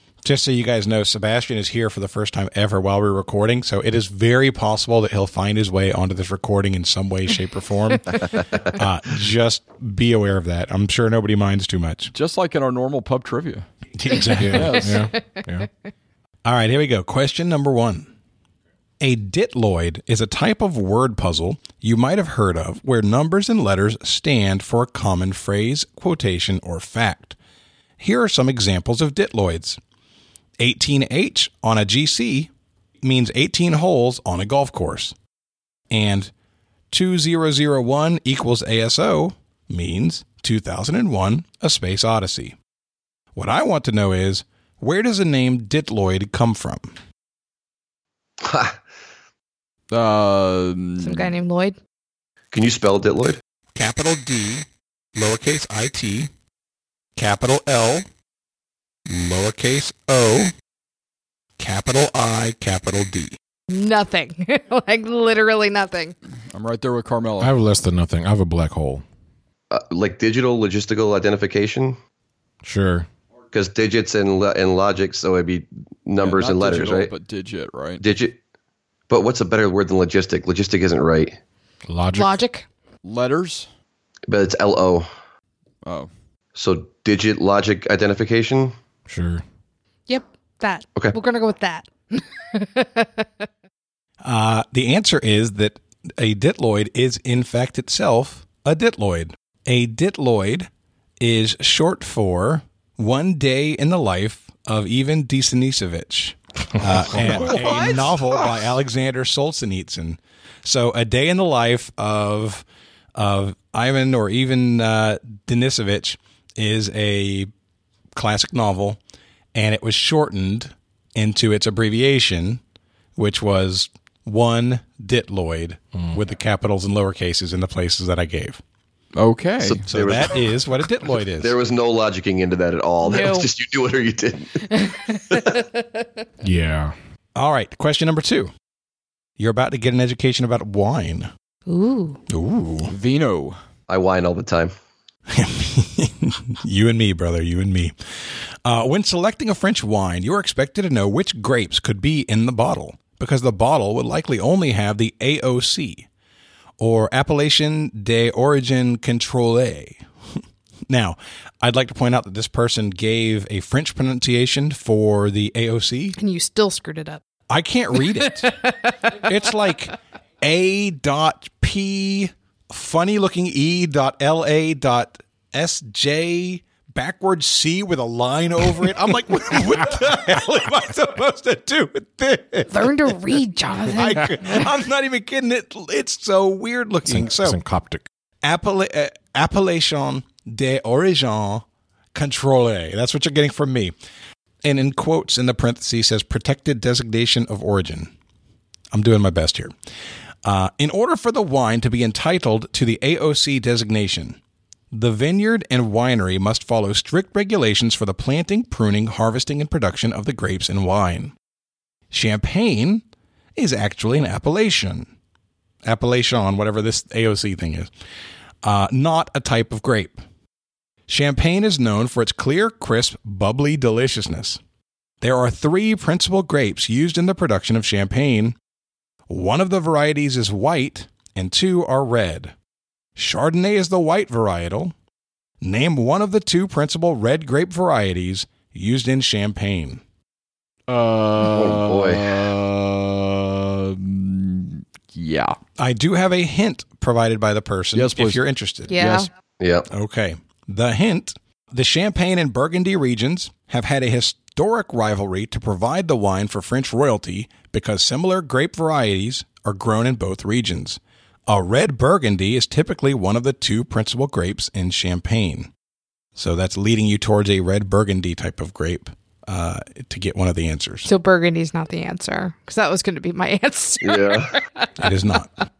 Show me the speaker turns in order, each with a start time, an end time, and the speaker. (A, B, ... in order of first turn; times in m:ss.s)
0:00.2-0:12.1 A
0:12.1-0:13.6 B
0:13.9-0:14.8 A
0:14.3-0:15.4 C
0:14.4-0:15.7 D
0:14.5-0:15.1 B
0:16.4-0:18.1 A
0:19.0-0:27.4 A
0:28.0-0:29.8 A
0:30.6-0:32.5 A
0:33.0-0:35.1 A
0:35.9-0:36.3 A
0:36.9-0:42.6 A
0:43.3-0:46.9 A
0:48.4-0:48.8 E
0:49.9-0:51.3 B
0:51.0-0:51.8 C
0:52.5-0:53.4 E
0:53.8-0:56.3 A
0:57.2-0:58.0 A
0:59.1-1:00.5 A
1:01.6-1:03.4 A
1:03.7-1:06.1 C
1:06.5-1:07.6 B
1:07.4-1:09.0 D
1:09.7-1:12.0 E
1:12.6-1:13.1 D
1:13.5-1:17.1 E
1:16.2-1:18.0 B
1:18.0-1:18.4 E
1:19.1-1:21.4 E
1:21.9-1:22.4 D
1:22.1-1:22.6 C
1:23.0-1:23.7 B
1:24.3-1:25.1 E
1:25.8-1:26.1 B
1:26.5-1:28.7 E
1:29.1-1:29.4 D
1:30.1-1:33.2 C
1:34.2-1:40.7 A
1:41.2-1:52.6 A
1:47.1-1:48.5 B
1:53.2-1:57.5 A
1:58.1-1:59.0 A
1:59.5-2:02.6 A
2:03.2-2:08.6 A
2:09.1-2:09.8 B
2:09.6-2:10.6 E
2:09.9-2:11.5 A
2:11.4-2:15.5 E
2:13.0-2:13.5 C
2:14.7-2:15.8 C
2:16.4-2:16.9 D
2:17.4-2:18.5 A
2:19.4-2:21.3 A
2:21.7-2:22.2 C
2:22.3-2:22.9 A
2:22.9-2:23.6 B
2:23.9-2:24.7 E
2:25.3-2:27.9 A
2:28.6-2:36.1 A
2:36.8-2:40.0 A
2:40.9-2:46.2 A
2:46.2-2:47.2 C
2:47.5-2:48.5 A
2:48.1-2:49.3 C
2:49.2-3:03.2 A
3:02.7-3:04.7 C
3:03.9-3:07.6 A
3:07.1-3:08.0 D
3:08.4-3:13.9 A
3:14.6-3:18.1 A
3:18.9-3:19.7 A
3:20.4-3:24.4 A
3:24.9-3:31.3 A
3:32.1-3:33.0 A
3:33.6-3:35.1 A
3:35.8-3:37.9 A
3:38.6-3:40.2 A
3:41.1-3:44.6 A
3:45.2-3:48.6 A
3:49.3-3:52.5 A
3:53.2-3:54.9 A
3:55.6-4:00.0 A
4:00.9-4:05.6 B
4:01.5-4:02.4 E
4:05.8-4:09.0 A
4:07.9-4:08.4 B
4:08.9-4:09.3 C
4:08.9-4:09.3 B
4:09.6-4:09.9 E
4:09.9-4:25.7 A
4:26.4-4:31.1 A
4:31.0-4:35.1 C
4:34.0-4:34.6 E
4:35.0-4:35.5 A